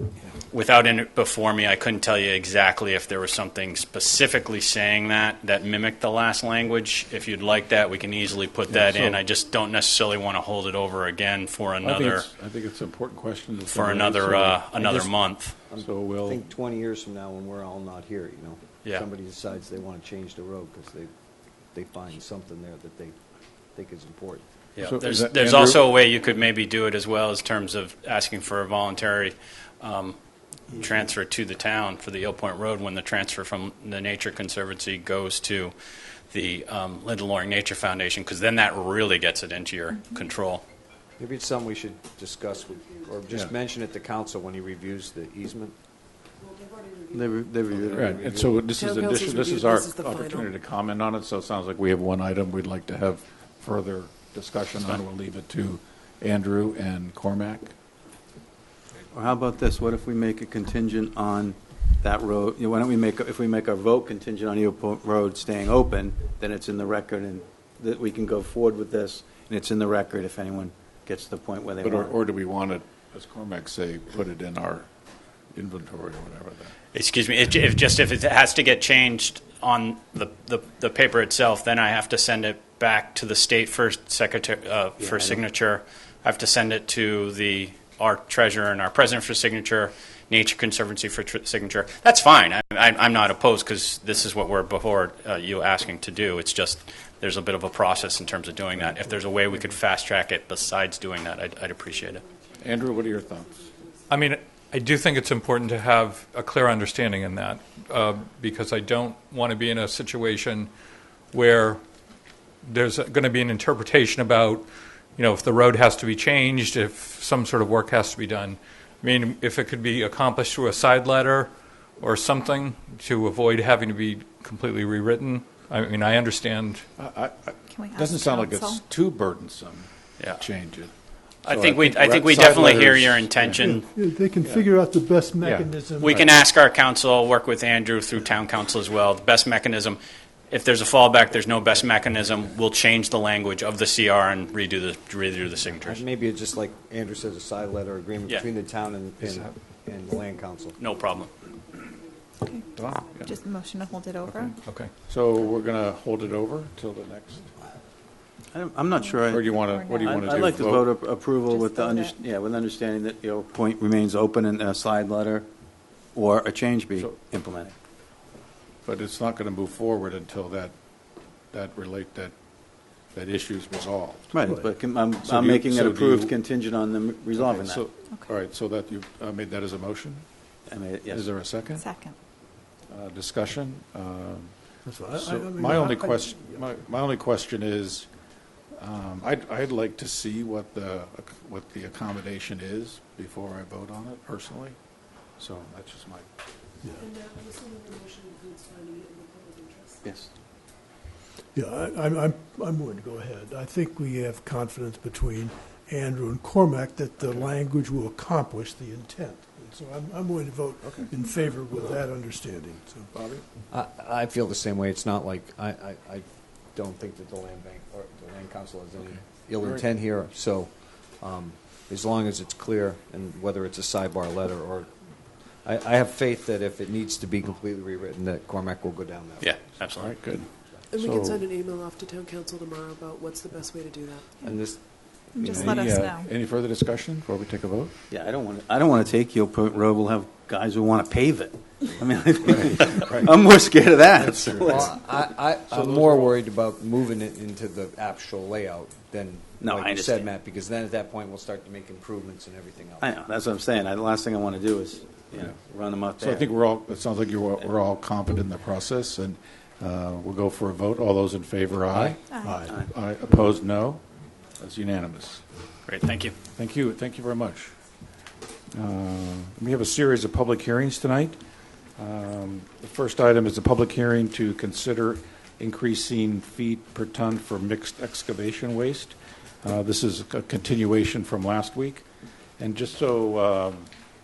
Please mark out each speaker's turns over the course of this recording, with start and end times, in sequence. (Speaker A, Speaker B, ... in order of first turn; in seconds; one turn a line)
Speaker A: 0.5-12.3
Speaker B: 8.7-9.2
Speaker B: 11.8-14.7
Speaker A: 13.7-15.6
Speaker C: 14.7-15.1
Speaker C: 15.7-21.1
Speaker B: 15.8-16.4
Speaker C: 21.7-23.1
Speaker C: 23.7-24.4
Speaker A: 24.8-30.1
Speaker B: 24.8-25.8
Speaker A: 30.7-35.7
Speaker A: 36.3-40.6
Speaker C: 41.2-45.7
Speaker D: 47.1-48.1
Speaker C: 47.7-48.6
Speaker B: 48.0-57.7
Speaker E: 48.7-50.5
Speaker D: 59.1-72.2
Speaker B: 71.8-74.9
Speaker B: 75.5-76.7
Speaker A: 76.9-102.2
Speaker D: 85.0-85.4
Speaker B: 102.6-103.7
Speaker F: 104.1-110.7
Speaker F: 111.3-111.8
Speaker F: 112.6-126.8
Speaker B: 127.0-130.9
Speaker G: 127.7-128.8
Speaker A: 131.4-133.8
Speaker B: 131.5-133.6
Speaker H: 133.6-136.5
Speaker B: 135.4-135.7
Speaker A: 136.0-140.0
Speaker A: 140.5-146.0
Speaker C: 145.8-150.8
Speaker B: 149.2-149.5
Speaker A: 150.8-151.3
Speaker G: 152.4-154.6
Speaker B: 152.7-153.3
Speaker F: 154.7-154.9
Speaker B: 155.0-157.5
Speaker D: 158.5-165.5
Speaker G: 159.3-160.4
Speaker B: 159.3-160.9
Speaker G: 161.5-162.1
Speaker D: 166.1-167.7
Speaker B: 168.8-170.7
Speaker B: 171.5-172.3
Speaker B: 173.1-174.4
Speaker D: 174.3-177.8
Speaker B: 175.2-176.3
Speaker B: 177.3-180.2
Speaker G: 178.1-178.3
Speaker D: 180.7-181.3
Speaker B: 181.1-181.8
Speaker G: 181.8-182.1
Speaker B: 182.9-184.5
Speaker H: 184.8-186.6
Speaker B: 185.1-188.1
Speaker B: 188.8-194.8
Speaker B: 195.4-196.3
Speaker E: 197.0-200.0
Speaker D: 200.0-200.3
Speaker H: 201.5-213.4
Speaker C: 213.7-224.9
Speaker C: 225.6-229.8
Speaker A: 229.4-230.2
Speaker B: 229.9-231.4
Speaker E: 230.9-234.3
Speaker C: 234.4-235.8
Speaker G: 235.3-236.3
Speaker B: 235.4-237.9
Speaker D: 238.1-244.9
Speaker B: 242.4-243.3
Speaker C: 244.1-253.1
Speaker B: 244.5-244.8
Speaker B: 245.7-246.4
Speaker D: 249.6-250.3
Speaker D: 253.0-256.5
Speaker B: 256.2-264.0
Speaker D: 261.9-262.1
Speaker G: 262.3-262.7
Speaker B: 264.6-265.4
Speaker A: 265.9-266.4
Speaker B: 266.5-267.7
Speaker B: 268.7-271.4
Speaker B: 272.0-282.1
Speaker B: 282.6-283.9